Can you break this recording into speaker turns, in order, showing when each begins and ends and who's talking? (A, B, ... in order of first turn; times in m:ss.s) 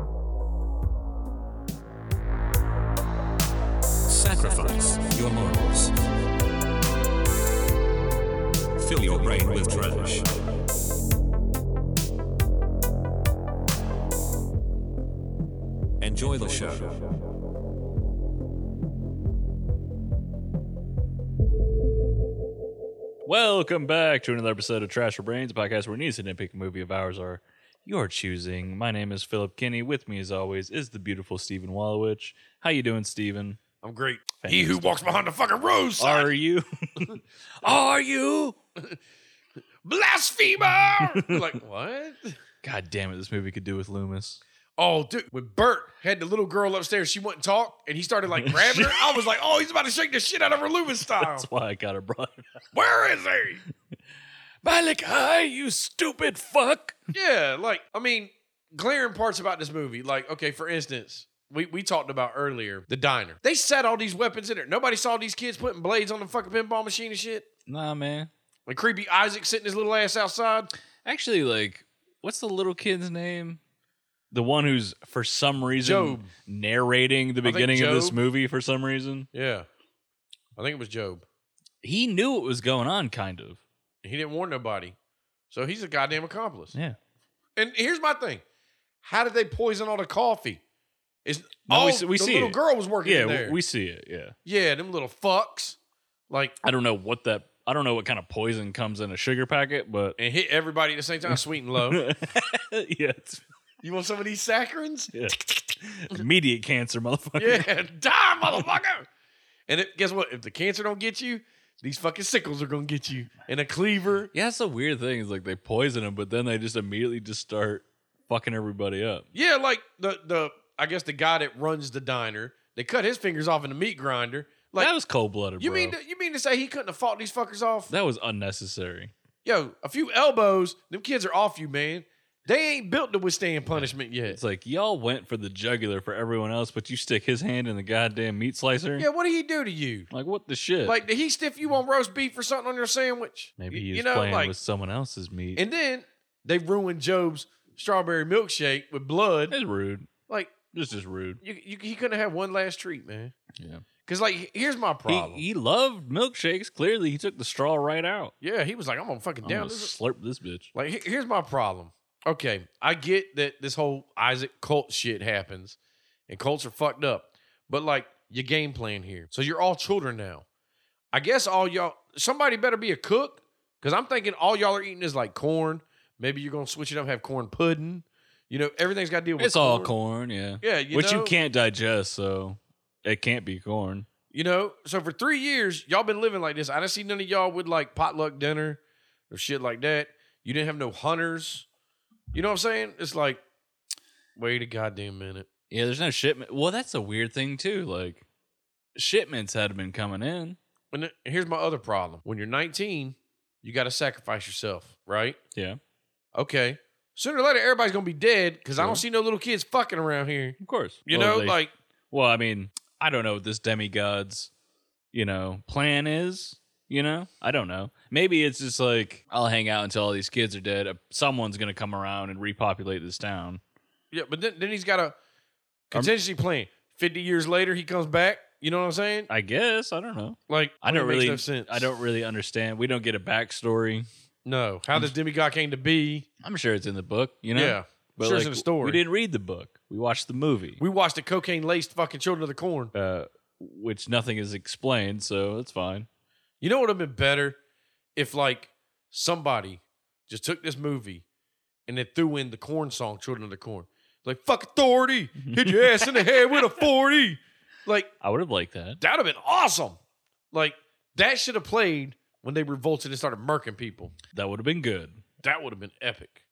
0:04.1-0:05.9 A
0:08.8-0:10.4 A
0:16.0-0:17.0 A
0:23.2-0:33.6 B
0:33.8-0:36.3 C
0:34.4-0:35.3 B
0:36.0-0:38.6 B
0:39.8-0:42.4 C
0:41.0-0:41.5 B
0:42.6-0:44.4 B
0:44.8-0:51.5 C
0:48.4-0:49.2 B
0:51.1-0:52.4 B
0:52.7-0:53.6 C
0:54.6-0:57.1 B
0:57.1-1:07.5 C
1:07.7-1:08.3 B
1:08.7-1:10.7 C
1:11.0-1:13.6 B
1:14.3-1:19.3 B
1:15.8-1:16.3 C
1:17.4-1:18.2 C
1:19.3-1:19.7 C
1:20.6-1:21.2 C
1:21.8-1:23.6 B
1:24.0-1:25.0 C
1:25.5-1:26.8 C
1:27.6-1:28.4 C
1:29.0-1:30.6 C
1:31.2-1:33.6 C
1:31.7-1:34.3 B
1:34.4-1:35.8 C
1:36.3-1:36.6 C
1:36.6-1:40.2 B
1:40.2-1:42.0 C
1:41.3-1:43.4 B
1:43.8-1:45.1 C
1:45.1-1:47.7 B
1:47.4-1:49.1 C
1:49.7-1:54.3 C
1:54.3-1:59.3 B
1:59.3-2:04.9 C
2:04.8-2:06.0 B
2:05.6-2:07.9 C
2:07.9-2:09.1 B
2:09.4-2:14.4 C
2:13.7-2:19.1 B
2:19.0-2:20.1 C
2:20.1-2:21.0 B
2:20.8-2:24.5 C
2:23.6-2:25.6 B
2:25.6-2:29.5 C
2:29.5-2:30.1 B
2:30.3-2:30.5 C
2:30.7-2:31.4 B
2:31.4-2:33.3 C
2:33.6-2:33.8 B
2:34.0-2:35.4 C
2:35.1-2:38.3 B
2:38.4-2:39.9 C
2:39.4-2:40.7 B
2:40.7-2:45.8 C
2:46.3-2:50.4 C
2:51.1-2:59.9 C
2:59.4-3:04.1 B
3:00.6-3:01.4 C
3:04.3-3:11.6 C
3:12.3-3:13.4 C
3:14.4-3:15.5 C
3:15.7-3:18.2 B
3:19.0-3:20.6 B
3:20.9-3:25.4 C
3:25.5-3:25.8 B
3:26.3-3:31.7 C
3:28.8-3:29.0 B
3:30.6-3:31.6 B
3:32.1-3:34.5 B
3:35.1-3:43.6 B
3:44.1-3:45.2 C
3:45.9-3:49.3 C
3:49.3-3:54.1 B
3:50.5-3:51.9 C
3:54.4-3:56.3 C
3:56.4-4:00.8 B
3:57.5-3:59.0 C
4:00.8-4:02.9 C
4:02.9-4:06.1 B
4:06.6-4:07.6 C
4:08.2-4:11.2 C
4:11.9-4:18.1 C
4:15.5-4:16.2 B
4:18.2-4:19.0 B
4:19.0-4:20.0 C
4:20.5-4:24.1 C
4:24.3-4:25.2 B
4:25.4-4:26.4 C